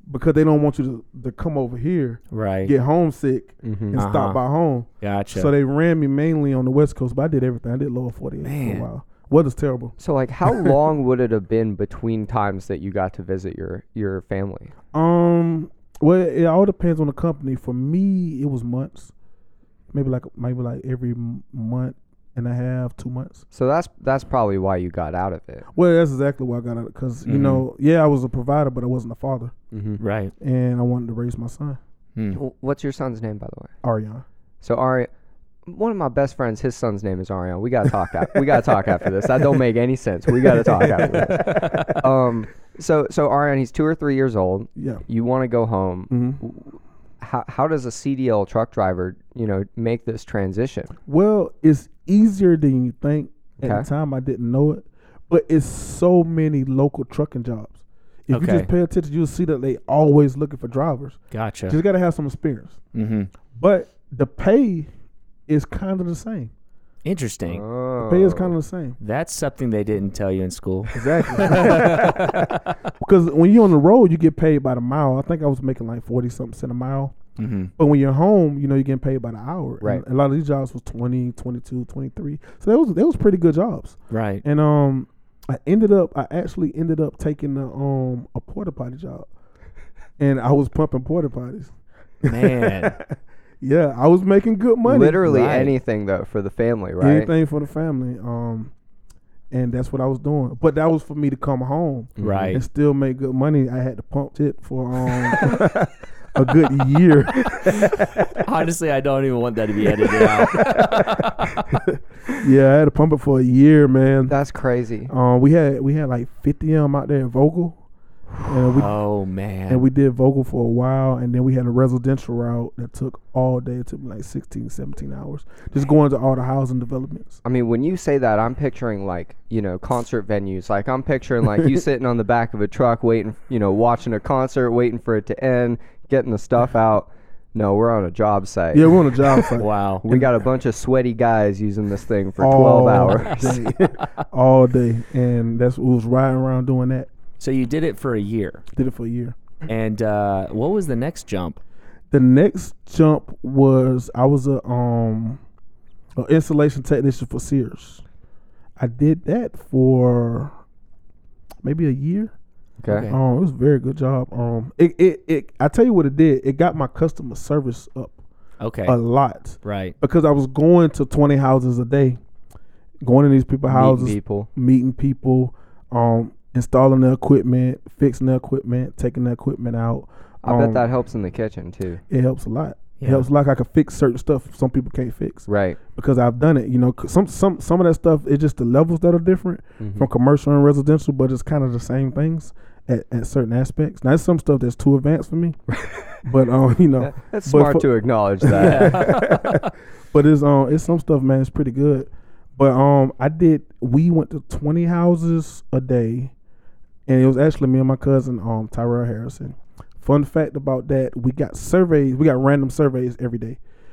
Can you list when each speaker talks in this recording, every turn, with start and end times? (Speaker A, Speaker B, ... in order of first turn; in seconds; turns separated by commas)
Speaker A: 0.1-9.9, Speaker B: 2.3-2.7, Speaker C: 3.6-4.0, Speaker B: 4.0-4.4, Speaker B: 5.0-5.5, Speaker B: 8.4-8.9, Speaker C: 10.0-14.7, Speaker A: 14.9-19.1, Speaker A: 19.9-23.4, Speaker C: 23.5-25.7, Speaker A: 25.7-29.5, Speaker B: 27.3-27.6, Speaker C: 29.7-30.0, Speaker B: 30.0-30.3, Speaker A: 30.4-31.8, Speaker C: 32.3-33.7, Speaker A: 33.8-34.2, Speaker C: 34.6-35.1, Speaker C: 35.7-50.9, Speaker A: 40.4-42.0, Speaker B: 41.2-42.0, Speaker A: 44.8-45.0, Speaker A: 46.1-46.4, Speaker A: 51.1-62.8, Speaker C: 53.6-53.9, Speaker B: 58.3-58.7, Speaker B: 61.3-61.8, Speaker B: 63.0-63.3, Speaker A: 63.5-64.9, Speaker A: 65.5-66.5, Speaker B: 67.0-67.6, Speaker C: 67.5-68.5, Speaker A: 68.0-69.0, Speaker B: 69.0-72.8, Speaker A: 70.9-77.1, Speaker B: 77.4-77.7, Speaker A: 77.8-89.3, Speaker B: 84.1-84.4, Speaker A: 90.2-91.7, Speaker A: 92.2-93.1, Speaker B: 92.3-93.0, Speaker A: 93.6-95.3, Speaker C: 94.8-97.3, Speaker B: 95.2-95.7, Speaker A: 97.0-98.7, Speaker A: 99.5-108.4, Speaker C: 102.2-102.6, Speaker B: 102.2-102.6, Speaker B: 105.2-105.6, Speaker B: 107.6-111.7, Speaker A: 110.2-114.3, Speaker C: 114.3-115.1, Speaker A: 115.1-117.8, Speaker A: 118.5-118.9, Speaker B: 118.8-119.8, Speaker A: 119.7-127.4, Speaker C: 127.5-139.5, Speaker A: 138.7-140.2, Speaker B: 139.6-140.1, Speaker C: 140.0-143.6, Speaker A: 142.4-147.1, Speaker B: 147.4-148.6, Speaker A: 148.8-149.4, Speaker B: 149.7-151.6, Speaker A: 152.1-155.4, Speaker A: 156.2-158.0, Speaker A: 158.8-160.5, Speaker A: 161.6-162.3, Speaker C: 162.8-163.1, Speaker B: 162.9-163.2, Speaker A: 163.1-168.2, Speaker B: 168.6-169.0, Speaker A: 168.8-172.2, Speaker B: 169.6-169.9, Speaker A: 173.0-180.8, Speaker C: 173.7-174.5, Speaker C: 180.4-182.0, Speaker A: 182.1-195.6, Speaker B: 183.0-183.3, Speaker C: 185.5-185.8, Speaker C: 189.8-190.1, Speaker C: 195.7-196.2, Speaker A: 196.2-197.9, Speaker C: 197.0-199.2, Speaker A: 198.4-206.3, Speaker B: 198.5-199.7, Speaker A: 207.1-213.6